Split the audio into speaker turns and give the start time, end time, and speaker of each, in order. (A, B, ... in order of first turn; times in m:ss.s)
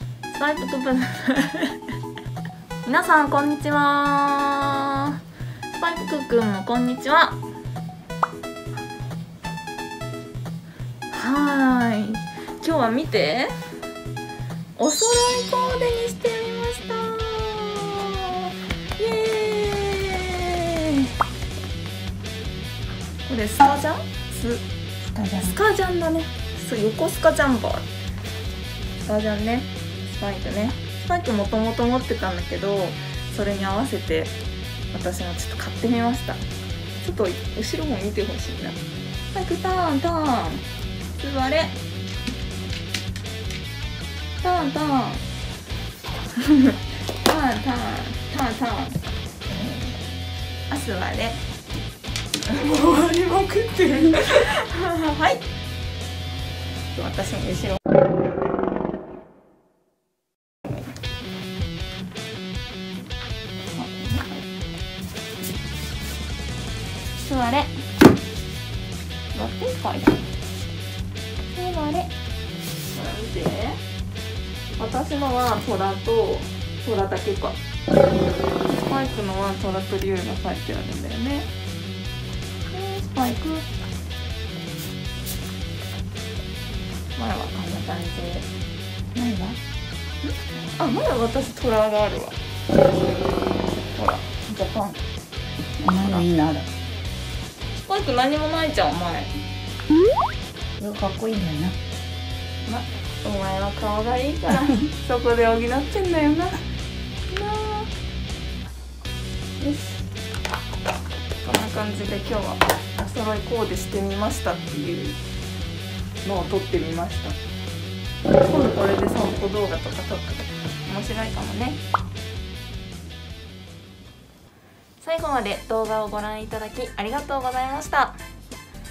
0:00.3-0:01.8 A
0:02.8-0:05.2 A
0:05.7-0:07.4 A
0:11.1-0:13.5 A
0:14.8-0:21.1 A
0:23.3-0:24.6 A
0:25.1-0:25.6 B
0:25.4-0:27.9 A
0:29.1-0:34.3 A
0:34.9-0:36.4 A
0:37.0-0:38.8 A
0:39.3-0:40.7 A
0:41.2-0:41.8 A
0:44.4-0:45.2 A
0:46.4-0:49.0 A
0:50.7-0:51.4 A
0:52.5-0:55.4 A
0:56.9-0:57.8 A
1:03.7-1:04.5 A
1:07.2-1:07.8 A
1:09.3-1:10.3 A
1:11.5-1:12.1 A
1:12.9-1:13.8 A
1:14.8-1:17.6 A
1:18.7-1:21.5 A
1:22.7-1:23.7 A
1:27.2-1:28.5 A
1:29.2-1:29.6 B
1:30.8-1:32.4 A
1:33.7-1:35.0 A
1:35.8-1:36.7 B
1:36.0-1:36.3 A
1:37.8-1:39.3 A
1:40.8-1:41.8 B
1:42.7-1:46.6 A
1:47.3-1:47.9 A
1:51.4-1:55.2 A
1:56.2-1:57.4 A
1:58.4-2:01.8 A
2:05.0-2:08.2 A